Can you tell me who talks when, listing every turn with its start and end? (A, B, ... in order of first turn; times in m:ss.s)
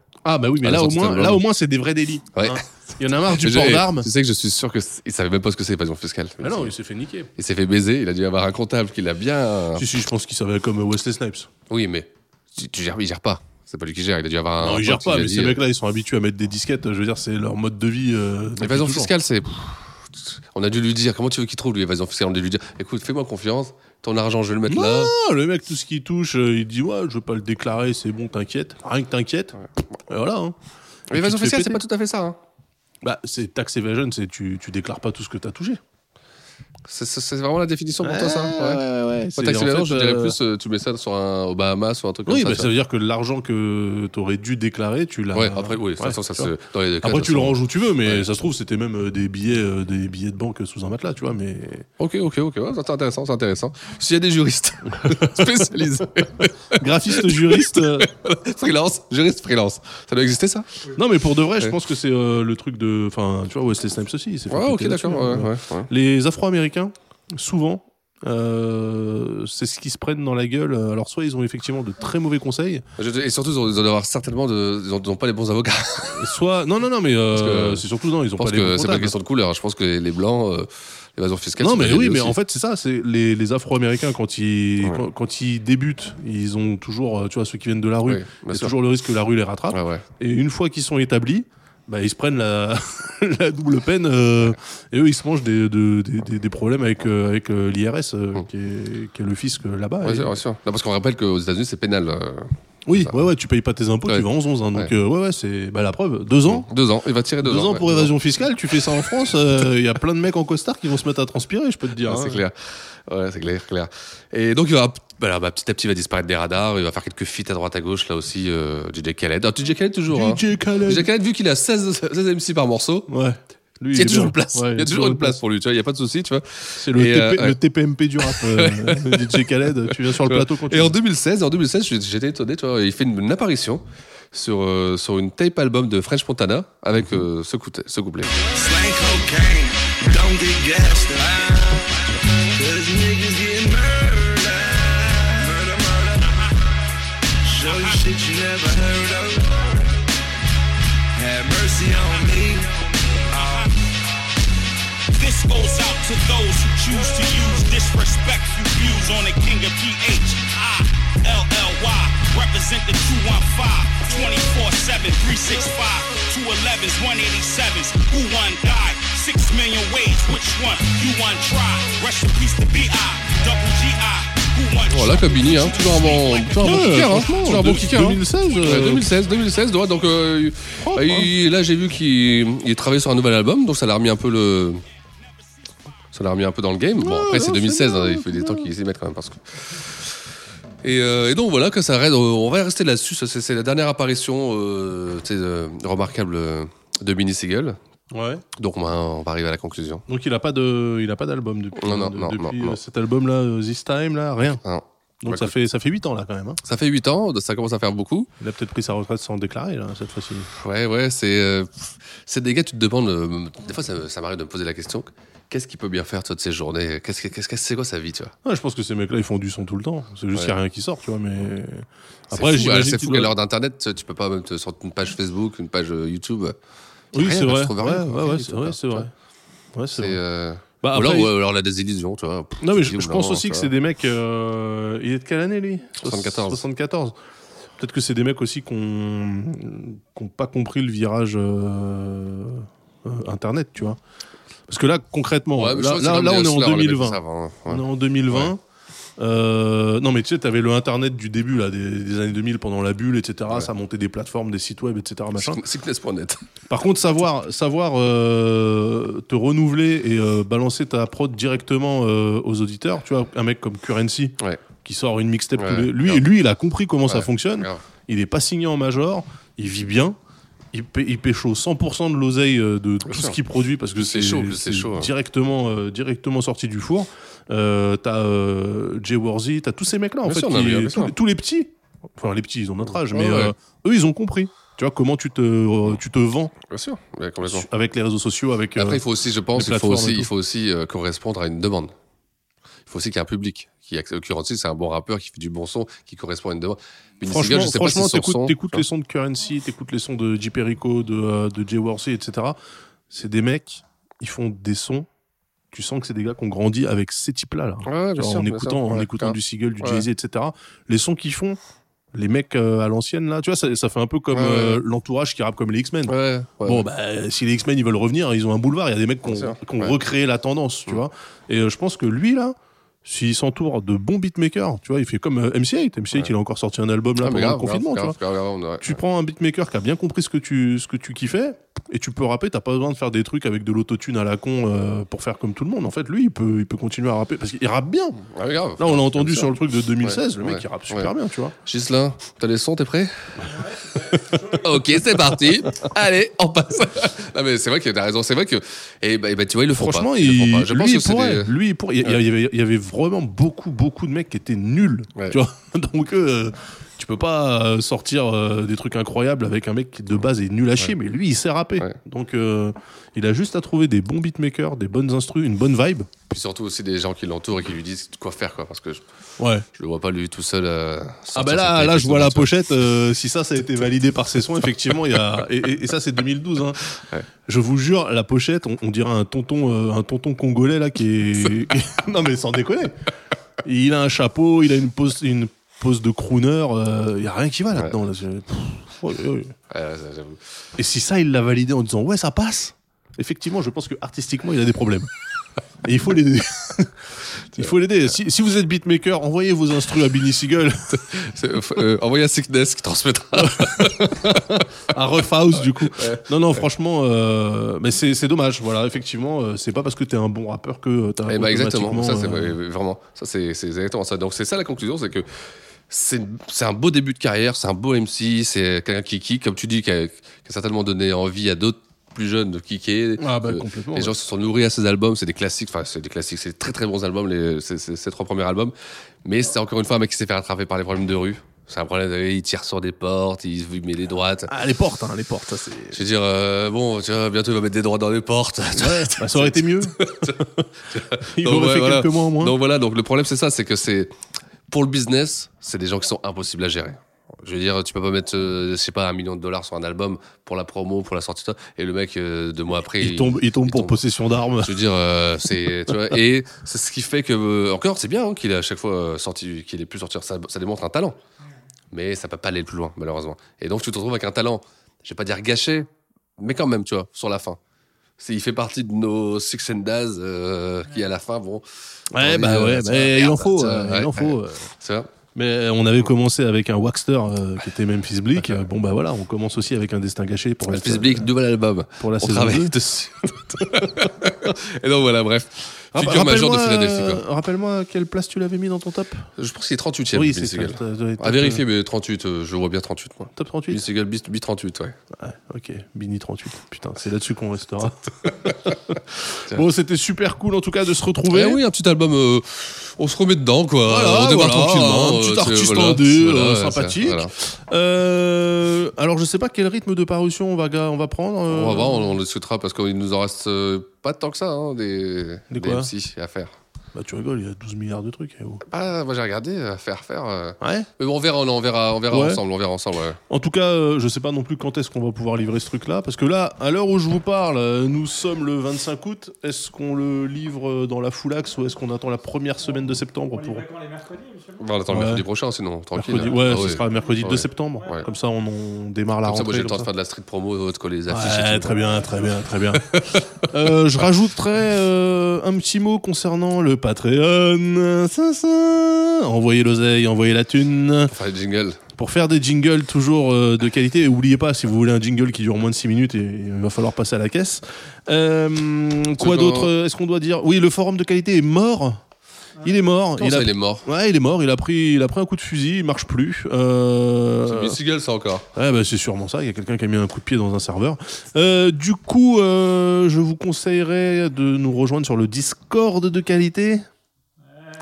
0:00.2-0:04.1 A
0:00.6-0:01.4 B
0:02.3-0:06.7 B
0:06.4-0:07.3 A
0:07.4-0:09.9 B
0:09.8-0:11.5 A
0:11.7-0:15.6 B
0:14.6-0:19.1 A
0:18.6-0:25.1 B
0:24.7-0:30.6 A
0:31.1-0:32.4 B
0:31.1-0:31.8 A
0:33.0-0:35.8 A
0:36.9-0:38.8 B
0:38.0-0:40.4 A
0:39.4-0:42.7 B
0:42.3-0:46.5 A
0:45.3-0:48.3 B
0:47.0-0:51.9 A
0:52.0-1:00.7 B
0:55.0-0:55.4 A
0:56.8-0:58.1 A
1:00.9-1:12.8 A
1:04.5-1:05.9 B
1:13.0-1:16.3 B
1:16.0-1:19.2 A
1:17.3-1:22.4 B
1:21.6-1:40.4 A
1:24.8-1:25.1 B
1:28.0-1:28.7 B
1:29.7-1:30.0 B
1:40.0-1:43.2 B
1:42.8-1:46.6 A
1:44.0-1:44.9 B
1:46.4-1:48.2 B
1:47.4-1:52.4 A
1:52.0-2:03.1 B
2:00.1-2:01.1 A
2:03.1-2:05.4 A
2:03.9-2:07.6 B
2:06.8-2:11.0 A
2:08.2-2:18.3 B
2:18.6-2:19.6 C
2:20.3-2:21.3 C
2:31.6-2:31.9 C
2:33.3-2:33.7 D
2:35.2-2:57.9 D
2:54.9-3:04.8 B
2:56.6-2:59.1 A
3:00.8-3:01.3 A
3:06.1-3:10.2 B
3:07.0-3:08.7 A
3:10.8-3:17.8 B
3:18.1-3:18.4 A
3:18.6-3:20.0 B
3:20.1-3:24.6 A
3:21.8-3:22.8 B
3:24.6-3:25.5 B
3:25.2-3:26.6 A
3:26.6-3:28.3 B
3:28.4-3:30.5 A
3:30.5-3:38.3 B
3:38.4-3:43.3 A
3:42.3-3:46.6 B
3:47.1-3:49.1 B
3:47.1-3:49.1 A
3:49.7-3:50.2 A
3:49.9-3:53.7 B
3:50.8-3:51.3 A
3:52.6-3:57.2 A
3:56.0-3:56.6 B
3:57.8-4:04.0 A
4:04.7-4:08.6 A
4:05.6-4:08.5 B
4:09.2-4:15.6 A
4:15.4-4:16.4 B
4:16.7-4:30.2 A
4:25.6-4:26.3 B
4:27.0-4:27.8 B
4:30.7-4:46.6 A
4:33.0-4:33.4 B
4:33.9-4:35.1 B
4:40.2-4:41.1 B
4:43.1-4:43.6 B
4:46.6-4:47.7 B
4:47.4-4:49.0 A
4:48.8-4:51.9 B
4:49.5-4:50.3 A
4:52.9-4:58.8 B
4:57.2-5:02.6 A
5:03.1-5:05.1 A
5:05.7-5:11.6 A
5:07.8-5:10.1 B
5:12.1-5:16.1 A
5:14.3-5:14.8 B
5:16.0-5:16.8 B
5:16.6-5:28.2 A
5:19.2-5:20.0 B
5:27.2-5:29.0 B
5:28.8-5:38.2 A
5:38.2-5:41.1 B
5:38.8-5:41.6 A
5:41.6-5:43.6 B
5:44.3-5:52.2 B
5:44.3-5:44.6 A
5:49.8-6:06.1 A
6:06.3-6:09.0 B
6:09.4-6:09.6 A
6:09.7-6:12.5 B
6:11.4-6:16.8 A
6:17.0-6:17.3 B
6:17.5-6:22.9 A
6:23.6-6:29.6 A
6:29.7-6:30.4 B
6:30.8-6:35.1 A
6:35.8-6:37.0 A
6:37.5-6:41.0 A
6:40.9-6:44.6 B
6:43.4-6:52.6 A
6:45.6-6:46.6 B
6:51.3-6:55.3 B
6:55.9-7:14.5 B
7:03.2-7:04.2 A
7:14.5-7:16.0 A
7:15.9-7:24.1 B
7:18.8-7:20.6 A
7:21.3-7:22.6 A
7:24.7-7:34.0 B
7:33.0-7:34.8 A
7:34.6-7:41.2 B
7:41.9-7:47.6 B
7:48.2-7:51.6 B
7:52.1-7:54.7 A
7:52.2-7:55.1 B
7:55.4-8:01.3 A
8:00.6-8:07.2 B
8:02.0-8:02.7 A
8:05.9-8:09.3 A
8:09.4-8:15.0 B
8:10.1-8:11.6 A
8:13.3-8:13.8 A
8:15.2-8:21.6 A
8:21.3-8:27.3 B
8:23.8-8:32.1 A
8:31.5-8:36.5 B
8:35.5-8:35.9 A
8:36.9-8:38.6 A
8:38.7-8:43.2 B
8:40.6-8:40.9 A
8:42.1-8:42.4 A
8:43.3-8:53.7 A
8:54.6-8:58.1 B
8:54.9-8:55.2 A
8:55.9-8:59.9 A
8:59.2-9:01.8 B
9:01.1-9:11.1 A
9:02.7-9:03.3 B
9:11.1-9:11.8 B
9:12.0-9:22.0 A
9:19.2-9:19.7 B
9:22.6-9:27.8 A
9:23.2-9:23.8 B
9:27.4-9:28.4 B
9:28.6-9:36.8 A